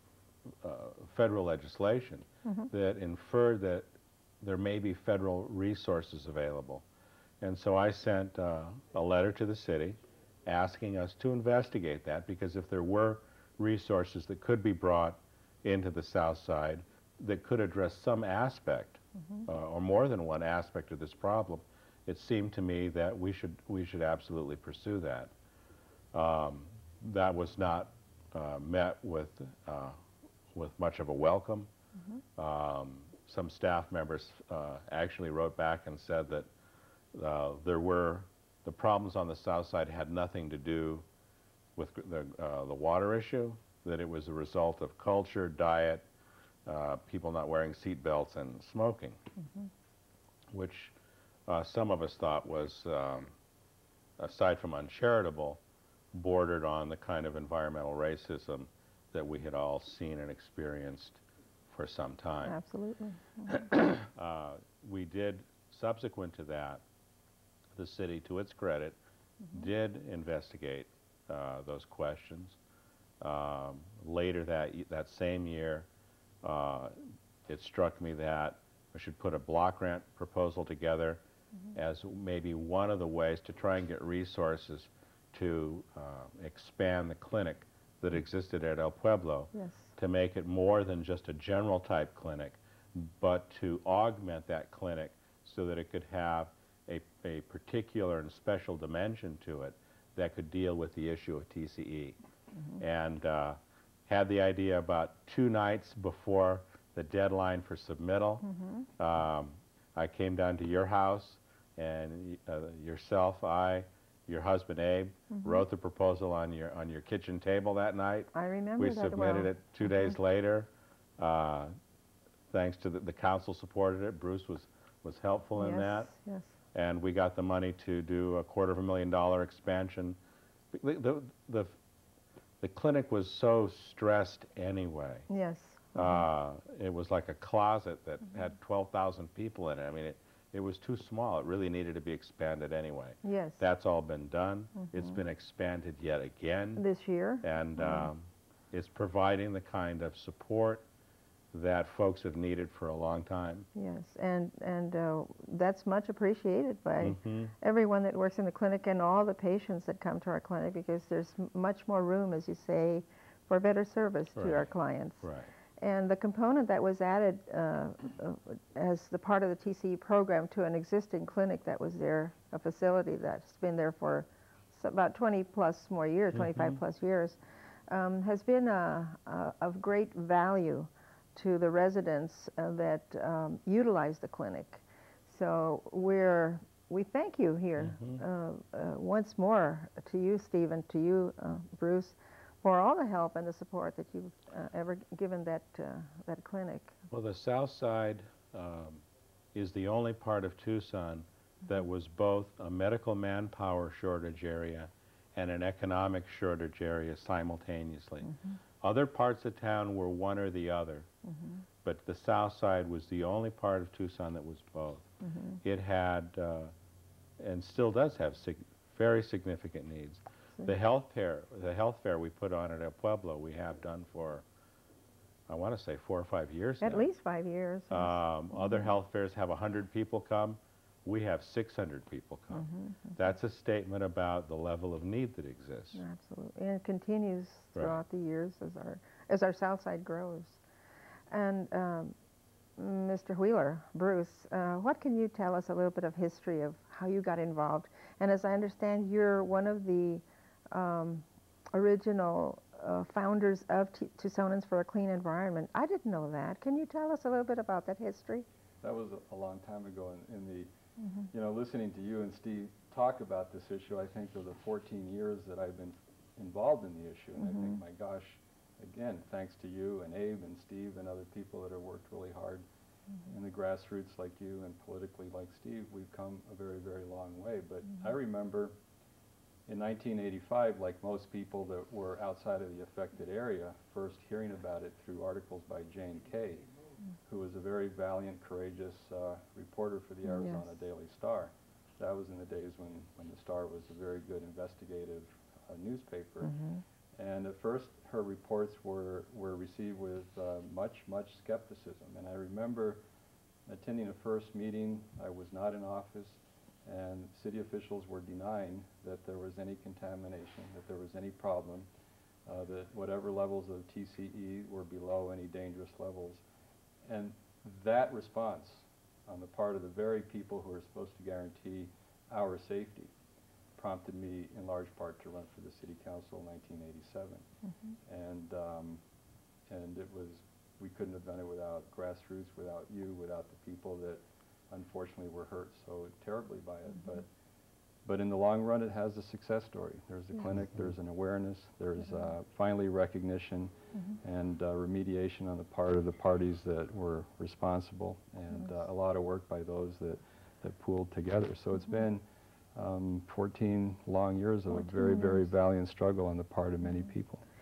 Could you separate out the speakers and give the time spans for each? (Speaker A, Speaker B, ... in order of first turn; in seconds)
Speaker A: 0.6-3.9, 4.4-6.8, 7.4-25.3, 26.1-30.0, 30.5-31.7, 32.4-36.5, 37.1-41.0, 41.8-46.0, 46.7-49.2, 50.5-50.9, 51.5-53.3, 54.2-55.6, 56.1-62.6, 63.6-66.8, 67.8-69.0, 69.5-72.6, 73.2-75.9, 76.4-81.2, 81.7-102.2, 102.8-108.5, 109.0-121.7, 122.5-126.1, 126.7-130.2, 130.7-131.7, 132.6-135.3, 135.9-146.8, 147.4-150.8, 151.5-153.7, 157.0-157.5, 164.4-164.7, 165.2-165.5, 176.4-176.8, 187.8-188.2, 197.1-199.0, 199.5-211.1, 211.8-215.1, 215.6-216.7, 217.4-224.4, 225.5-227.0, 227.9-236.0
Speaker B: 62.5-63.6, 89.5-89.9, 108.5-108.8, 115.3-115.6, 118.3-119.5, 125.5-126.5, 135.3-136.2, 143.2-143.6, 144.8-145.2, 146.8-148.1, 153.7-196.9, 208.2-208.5, 211.3-211.6, 215.3-215.6, 226.8-228.9, 232.5-233.2, 235.9-240.6, 241.3-242.2, 242.8-258.4, 290.2-290.6, 296.4-296.8, 354.8-355.5
Speaker C: 258.8-260.7, 261.3-272.6, 273.2-278.8, 279.7-286.7, 287.3-296.6, 297.2-303.0, 303.7-311.9, 312.5-316.4, 317.1-323.1, 323.8-327.4, 328.1-329.0, 329.7-337.3, 338.1-352.2, 352.8-357.4